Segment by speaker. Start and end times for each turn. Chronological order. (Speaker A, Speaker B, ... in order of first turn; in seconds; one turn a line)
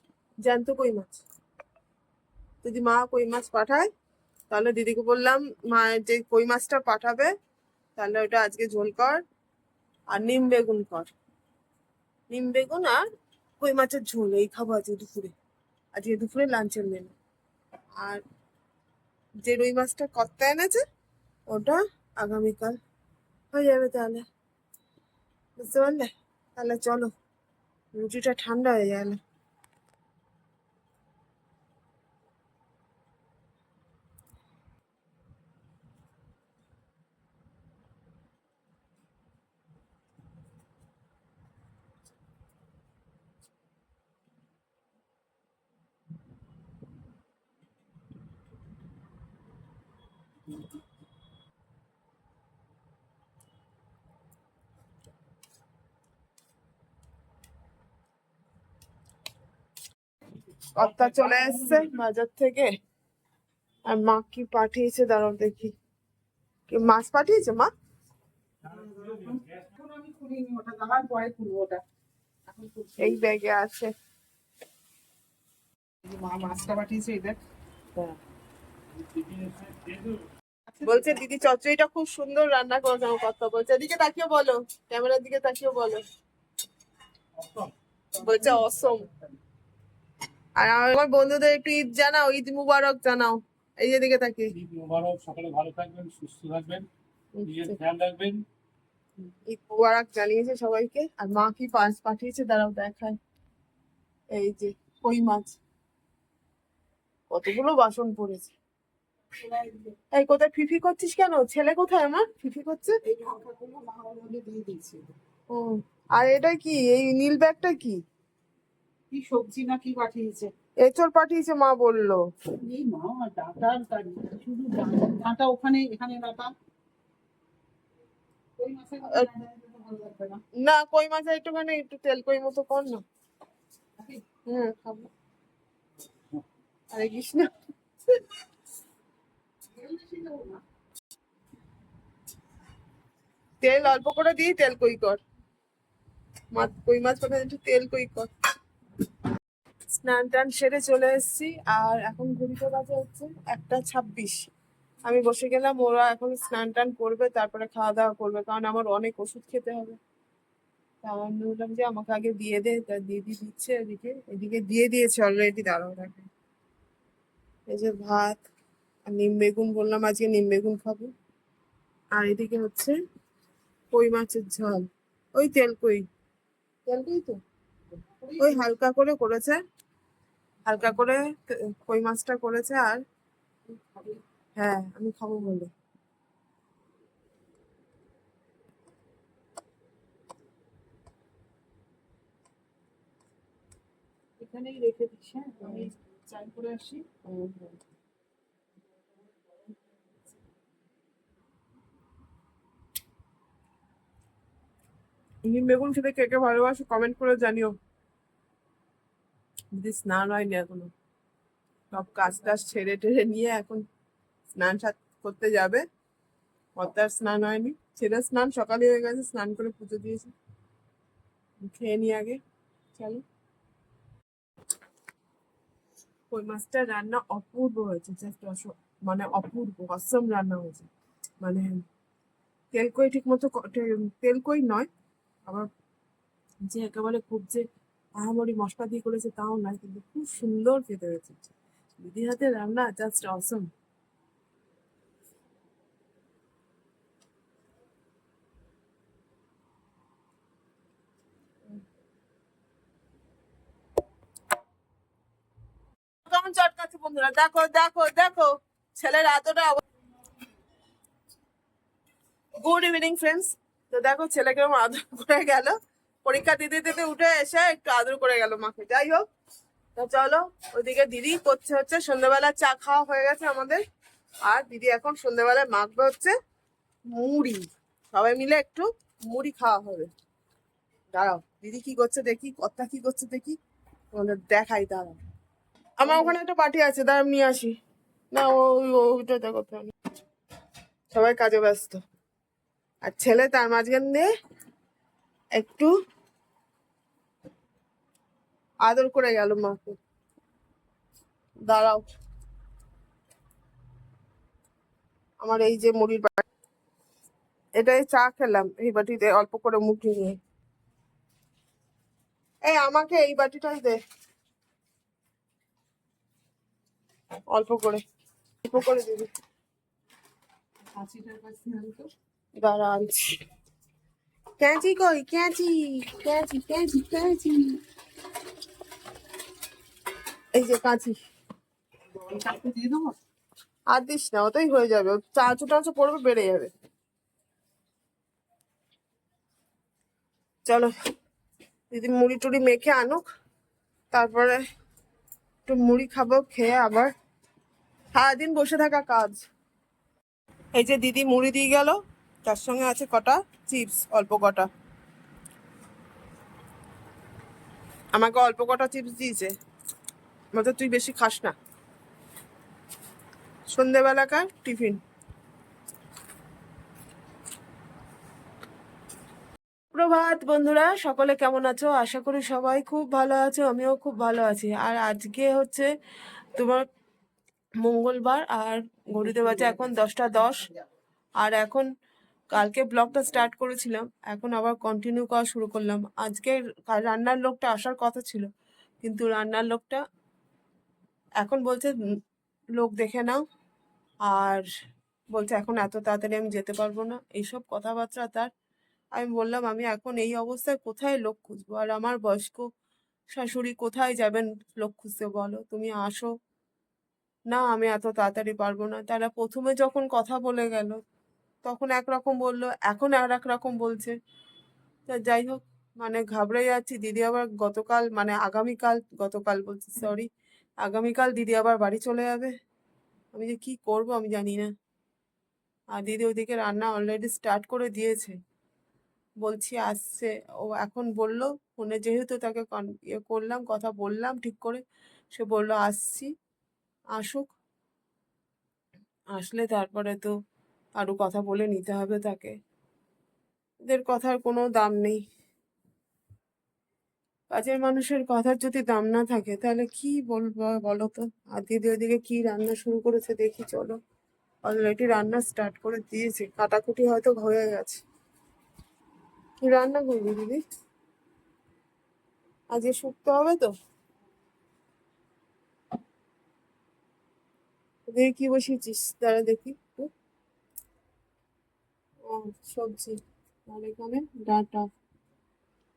Speaker A: 0.4-1.2
Speaker A: 2.6-3.9
Speaker A: 4.5-7.3
Speaker A: 8.0-9.2
Speaker A: 10.1-11.1
Speaker A: 12.3-13.1
Speaker A: 13.6-15.3
Speaker A: 15.9-17.1
Speaker A: 19.4-20.8
Speaker A: 21.5-22.8
Speaker A: 23.5-24.2
Speaker A: 25.6-27.1
Speaker A: 27.9-29.2
Speaker A: 60.7-62.7
Speaker A: 63.9-65.8
Speaker A: 66.7-67.7
Speaker B: 68.6-71.8
Speaker B: 72.5-73.2
Speaker A: 73.0-73.9
Speaker B: 76.0-77.4
Speaker C: 79.0-80.2
Speaker B: 80.7-81.2
Speaker A: 80.8-86.0
Speaker C: 87.4-87.7
Speaker A: 88.2-89.1
Speaker B: 88.3-88.7
Speaker A: 90.6-94.5
Speaker C: 94.6-96.9
Speaker A: 97.3-97.8
Speaker C: 97.4-98.5
Speaker A: 99.5-103.2
Speaker A: 104.3-105.6
Speaker A: 107.3-108.5
Speaker B: 109.4-110.0
Speaker A: 110.1-113.0
Speaker B: 113.0-115.1
Speaker A: 115.5-118.0
Speaker B: 119.1-120.5
Speaker A: 120.8-122.2
Speaker B: 122.6-126.5
Speaker B: 128.6-130.4
Speaker A: 130.6-133.0
Speaker A: 134.5-135.1
Speaker A: 136.9-137.5
Speaker B: 139.7-140.6
Speaker A: 143.6-145.2
Speaker A: 146.5-148.3
Speaker A: 149.9-154.5
Speaker A: 155.1-160.0
Speaker A: 161.0-166.3
Speaker A: 167.7-168.4
Speaker A: 169.1-171.1
Speaker A: 172.2-173.0
Speaker A: 173.9-176.0
Speaker A: 176.9-177.4
Speaker B: 177.9-178.7
Speaker A: 178.4-179.6
Speaker A: 180.7-183.0
Speaker B: 183.7-184.2
Speaker A: 184.6-185.7
Speaker B: 194.4-197.1
Speaker A: 197.2-197.8
Speaker A: 205.4-207.8
Speaker A: 209.7-210.9
Speaker A: 211.9-213.8
Speaker A: 214.6-215.8
Speaker A: 216.8-220.3
Speaker A: 221.6-222.4
Speaker A: 223.0-223.2
Speaker A: 226.3-230.9
Speaker A: 231.4-231.8
Speaker A: 232.7-234.9
Speaker A: 236.7-237.7
Speaker A: 238.2-243.7
Speaker A: 256.2-259.8
Speaker A: 262.6-269.2
Speaker A: 270.0-273.8
Speaker A: 274.4-276.3
Speaker A: 277.1-280.1
Speaker A: 281.1-283.6
Speaker A: 284.1-285.2
Speaker A: 286.0-287.8
Speaker A: 288.3-289.9
Speaker A: 291.1-292.0
Speaker A: 293.0-294.3
Speaker A: 295.6-295.9
Speaker A: 298.9-300.0
Speaker A: 301.7-302.0
Speaker A: 305.4-306.5
Speaker A: 307.8-310.4
Speaker A: 312.6-314.0
Speaker A: 317.5-318.0
Speaker A: 318.6-319.3
Speaker B: 320.9-322.1
Speaker A: 322.6-323.4
Speaker A: 324.6-327.8
Speaker A: 330.5-331.2
Speaker B: 332.1-333.1
Speaker A: 333.9-336.7
Speaker A: 341.9-343.2
Speaker A: 344.1-344.6
Speaker A: 345.7-347.1
Speaker A: 348.1-349.4
Speaker A: 350.8-354.7
Speaker A: 358.1-359.5
Speaker A: 360.5-361.6
Speaker A: 363.7-365.0
Speaker A: 369.9-375.9
Speaker A: 376.6-376.9
Speaker A: 377.8-380.7
Speaker B: 379.4-379.9
Speaker A: 381.4-381.9
Speaker A: 382.5-388.5
Speaker A: 389.0-390.0
Speaker A: 391.4-391.9
Speaker A: 392.8-393.4
Speaker A: 394.3-394.6
Speaker A: 395.3-398.5
Speaker A: 399.1-402.7
Speaker A: 403.3-406.3
Speaker A: 407.5-411.0
Speaker A: 411.6-414.2
Speaker A: 415.1-420.3
Speaker A: 420.8-422.5
Speaker A: 423.3-424.7
Speaker A: 425.9-428.4
Speaker A: 429.4-436.3
Speaker A: 437.1-437.5
Speaker A: 439.3-440.3
Speaker A: 441.0-442.6
Speaker A: 443.9-445.2
Speaker A: 447.5-454.0
Speaker A: 454.6-458.0
Speaker A: 459.6-460.6
Speaker A: 462.7-463.7
Speaker A: 468.1-470.1
Speaker A: 472.3-474.9